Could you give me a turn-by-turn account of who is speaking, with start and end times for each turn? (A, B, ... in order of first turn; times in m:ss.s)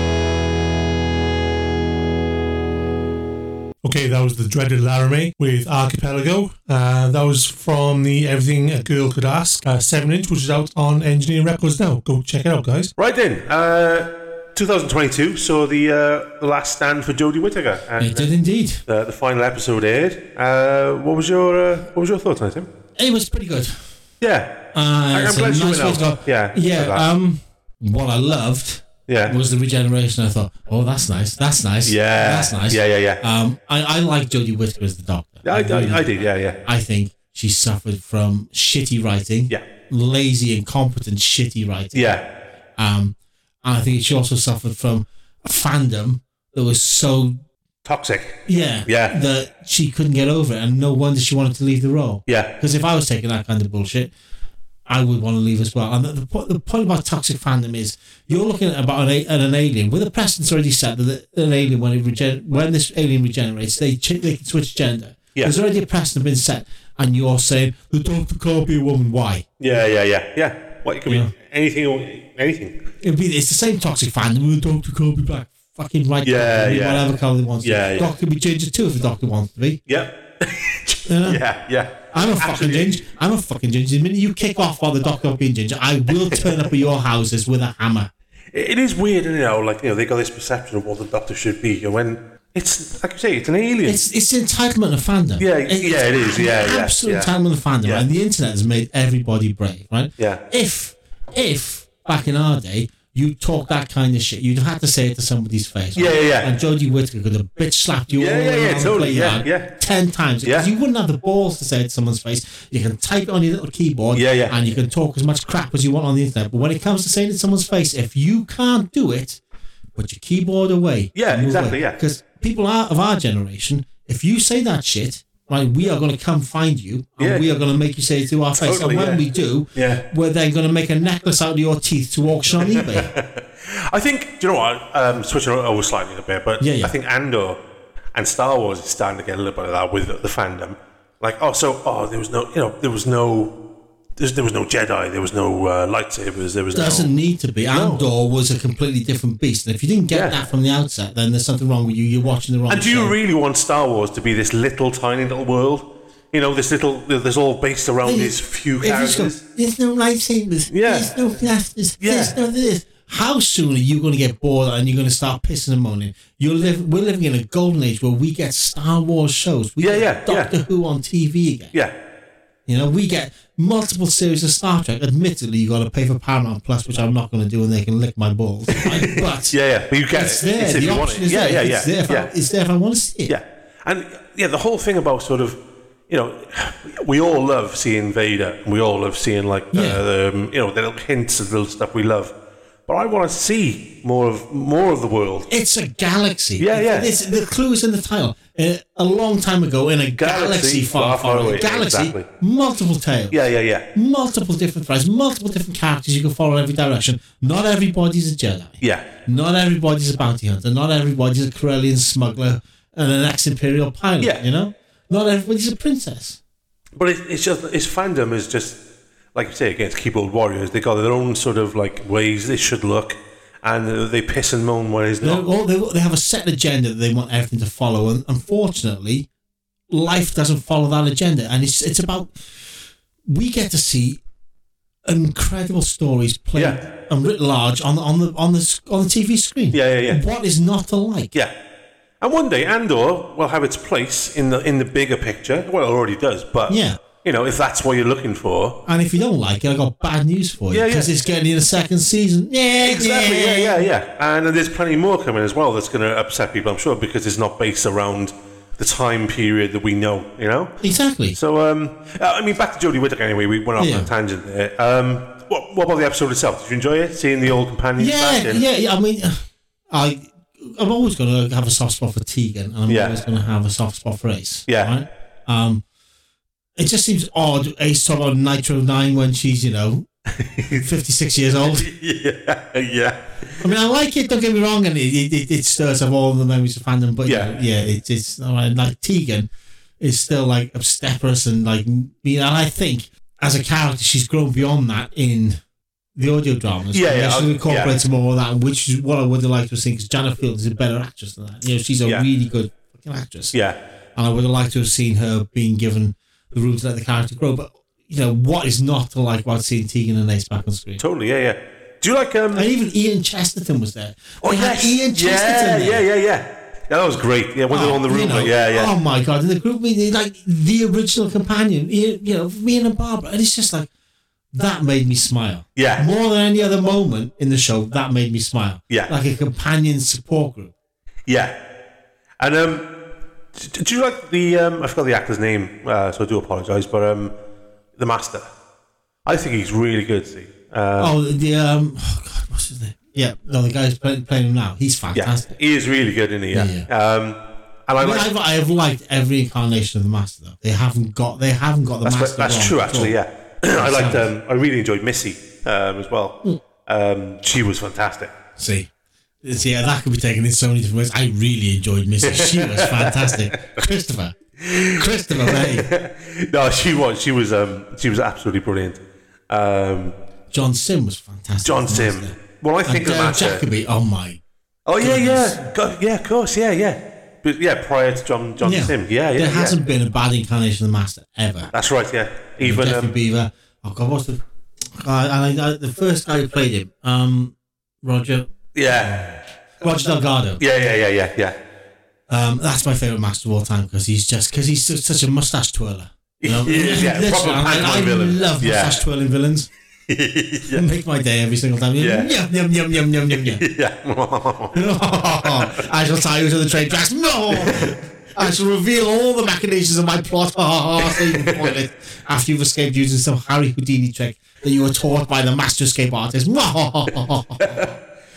0:03.8-0:12.9 A
0:13.0-0:18.3 B
0:18.0-0:18.8 C
0:18.9-0:22.7 B
0:23.0-0:23.9 C
0:24.2-0:24.6 B
0:24.7-0:36.1 C
0:25.1-0:27.0 B
0:29.1-0:29.4 B
0:31.9-0:33.2 B
0:35.4-0:36.6 B
0:36.6-0:42.2 C
0:41.9-0:42.2 B
0:42.8-0:47.4 C
0:47.8-0:49.2 B
0:48.5-0:54.1 C
0:52.3-0:52.5 B
0:54.9-1:09.5 C
1:09.6-1:12.8 B
1:13.0-1:19.8 C
1:16.2-1:17.1 B
1:17.6-1:18.1 B
1:19.9-1:22.9 B
1:21.1-1:21.4 C
1:22.1-1:28.1 C
1:26.3-1:26.6 B
1:28.5-1:34.0 B
1:33.8-1:59.4 C
1:35.4-1:37.3 B
1:40.2-1:40.4 B
1:46.0-1:46.5 B
1:48.2-1:49.7 B
1:50.4-1:50.7 B
1:54.1-1:54.6 B
2:00.0-2:13.1 C
2:01.2-2:02.0 B
2:07.2-2:07.6 B
2:08.6-2:09.2 B
2:09.8-2:10.1 B
2:12.6-2:17.6 B
2:16.6-2:16.9 C
2:18.1-2:23.6 B
2:24.2-2:27.1 B
2:26.7-2:33.2 C
2:27.7-2:28.1 B
2:30.1-2:30.4 B
2:32.7-2:39.4 B
2:38.0-2:51.8 C
2:40.7-2:41.1 B
2:42.0-2:42.4 B
2:49.8-2:50.5 B
2:52.7-2:59.6 C
2:58.7-3:02.3 B
3:00.1-3:03.4 C
3:03.3-3:12.3 B
3:09.7-3:10.0 C
3:12.9-3:15.5 B
3:15.5-3:23.4 C
3:16.6-3:17.1 B
3:20.2-3:22.3 B
3:23.3-3:23.9 B
3:23.9-3:36.4 C
3:28.8-3:29.1 B
3:37.0-3:38.8 B
3:39.4-3:45.5 B
3:45.2-3:49.3 C
3:49.9-3:52.4 C
3:53.3-3:54.2 C
3:55.0-4:01.3 C
3:56.6-3:56.8 B
3:59.7-4:00.2 B
4:02.2-4:08.8 B
4:06.7-4:07.0 C
4:08.9-4:13.9 C
4:10.7-4:11.1 B
4:12.8-4:20.8 B
4:20.8-4:21.4 C
4:21.3-4:28.6 B
4:23.8-4:24.1 C
4:28.0-4:35.8 C
4:32.9-4:33.2 B
4:34.7-4:34.9 B
4:36.8-4:40.1 C
4:40.3-4:40.9 B
4:40.7-4:41.9 C
4:41.6-4:43.7 B
4:43.6-4:55.6 C
4:47.3-4:47.5 B
4:56.2-5:03.5 C
4:56.9-4:58.0 B
5:03.5-5:03.8 B
5:04.2-5:11.0 C
5:11.0-5:12.7 B
5:12.5-5:16.1 C
5:14.4-5:18.9 B
5:17.7-5:23.9 C
5:24.5-5:30.7 C
5:25.8-5:26.1 B
5:31.3-5:31.6 B
5:32.4-5:32.9 B
5:33.6-5:37.4 B
5:38.0-5:38.5 B
5:39.2-5:41.1 B
5:41.0-5:45.6 C
5:45.1-5:48.3 B
5:46.5-5:46.9 C
5:48.0-5:53.2 C
5:52.0-5:58.3 B
5:53.8-5:54.3 C
5:58.6-5:58.9 C
5:59.4-6:04.4 C
6:02.2-6:03.6 B
6:04.6-6:10.2 B
6:05.0-6:05.9 C
6:10.5-6:12.4 C
6:11.6-6:13.6 B
6:12.9-6:14.4 C
6:14.9-6:19.8 B
6:15.0-6:15.6 C
6:18.6-6:21.7 C
6:21.7-6:23.1 B
6:22.6-6:30.6 C
6:28.7-6:29.3 B
6:30.6-6:31.6 B
6:32.3-6:39.7 C
6:36.4-6:39.0 B
6:40.1-6:40.9 B
6:40.8-6:43.6 C
6:42.0-6:42.3 B
6:43.3-6:45.9 B
6:44.7-6:57.9 C
6:47.5-6:48.0 B
6:51.0-6:51.7 B
6:57.6-6:57.9 B